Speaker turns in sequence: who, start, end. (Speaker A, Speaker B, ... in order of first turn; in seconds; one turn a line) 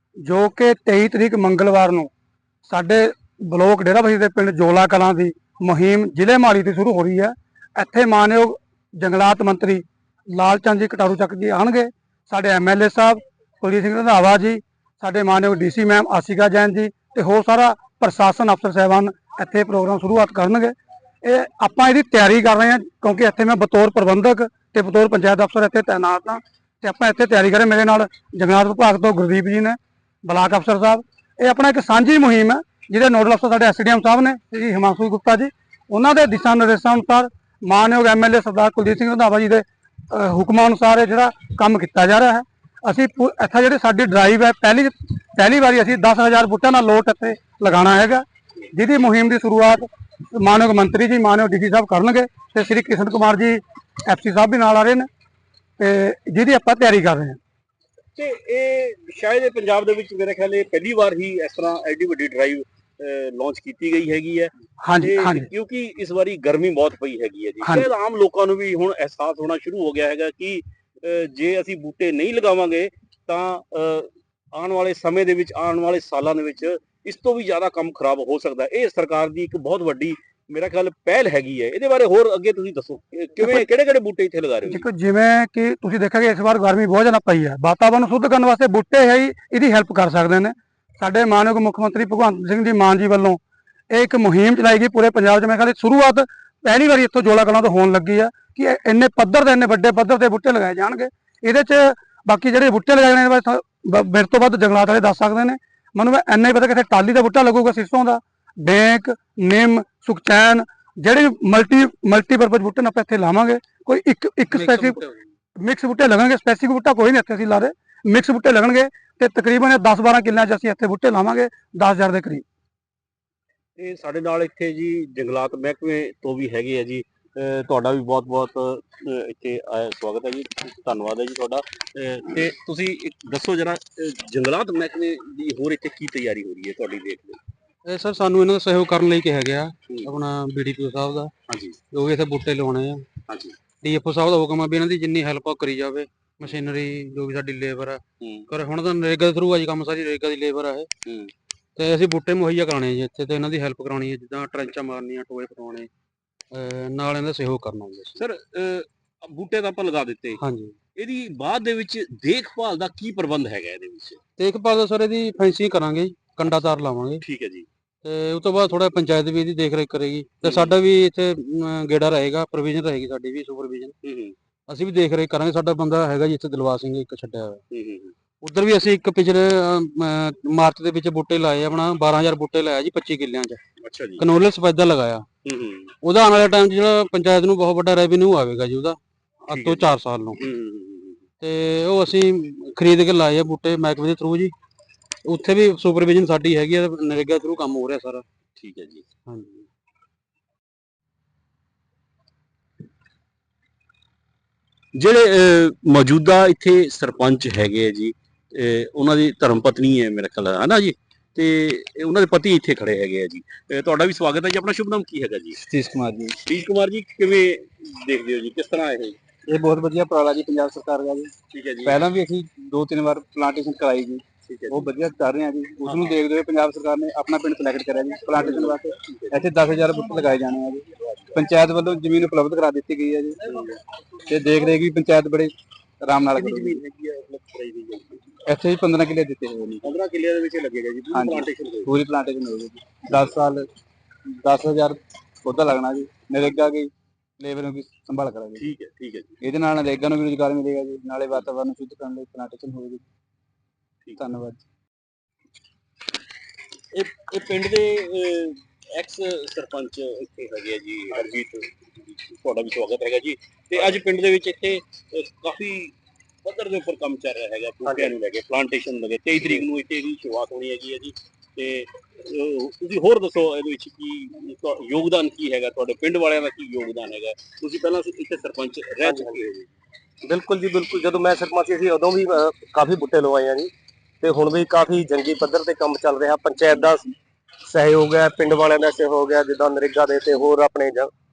Speaker A: 0.2-2.1
Speaker A: 2.6-55.1
Speaker A: 55.8-57.4
Speaker B: 58.1-84.8
Speaker A: 64.8-65.5
Speaker A: 67.6-67.9
Speaker A: 84.7-93.4
Speaker A: 93.9-115.0
Speaker C: 114.5-115.2
Speaker A: 115.6-122.4
Speaker B: 123.8-137.4
Speaker C: 137.8-141.3
Speaker B: 139.9-140.1
Speaker B: 141.5-141.8
Speaker C: 141.9-143.1
Speaker B: 143.3-143.6
Speaker C: 143.8-150.9
Speaker B: 148.2-148.5
Speaker B: 151.1-151.3
Speaker C: 151.8-155.9
Speaker C: 156.5-158.2
Speaker B: 158.2-160.4
Speaker C: 160.4-160.8
Speaker B: 160.9-164.2
Speaker C: 164.4-167.2
Speaker B: 167.2-167.7
Speaker C: 168.0-173.9
Speaker B: 170.4-170.7
Speaker B: 174.0-174.3
Speaker C: 174.7-177.6
Speaker B: 177.7-178.1
Speaker C: 178.4-183.6
Speaker B: 183.8-184.3
Speaker C: 184.2-185.2
Speaker B: 185.4-185.9
Speaker C: 186.0-190.4
Speaker B: 189.5-191.2
Speaker C: 191.4-194.5
Speaker C: 195.2-198.2
Speaker B: 198.6-199.0
Speaker C: 199.3-199.6
Speaker B: 204.9-215.6
Speaker D: 215.6-216.4
Speaker B: 216.4-219.2
Speaker D: 219.4-221.3
Speaker B: 221.5-222.0
Speaker D: 221.8-233.4
Speaker B: 224.4-224.9
Speaker B: 225.8-226.2
Speaker B: 228.3-229.4
Speaker B: 231.1-231.4
Speaker B: 233.5-233.8
Speaker D: 234.3-236.8
Speaker E: 236.3-238.2
Speaker D: 238.4-239.9
Speaker B: 239.8-241.9
Speaker D: 241.1-243.7
Speaker D: 244.4-248.6
Speaker B: 248.6-249.4
Speaker D: 249.4-253.0
Speaker D: 254.2-254.6
Speaker B: 256.9-279.7
Speaker E: 279.0-279.4
Speaker E: 280.2-287.1
Speaker E: 287.6-291.1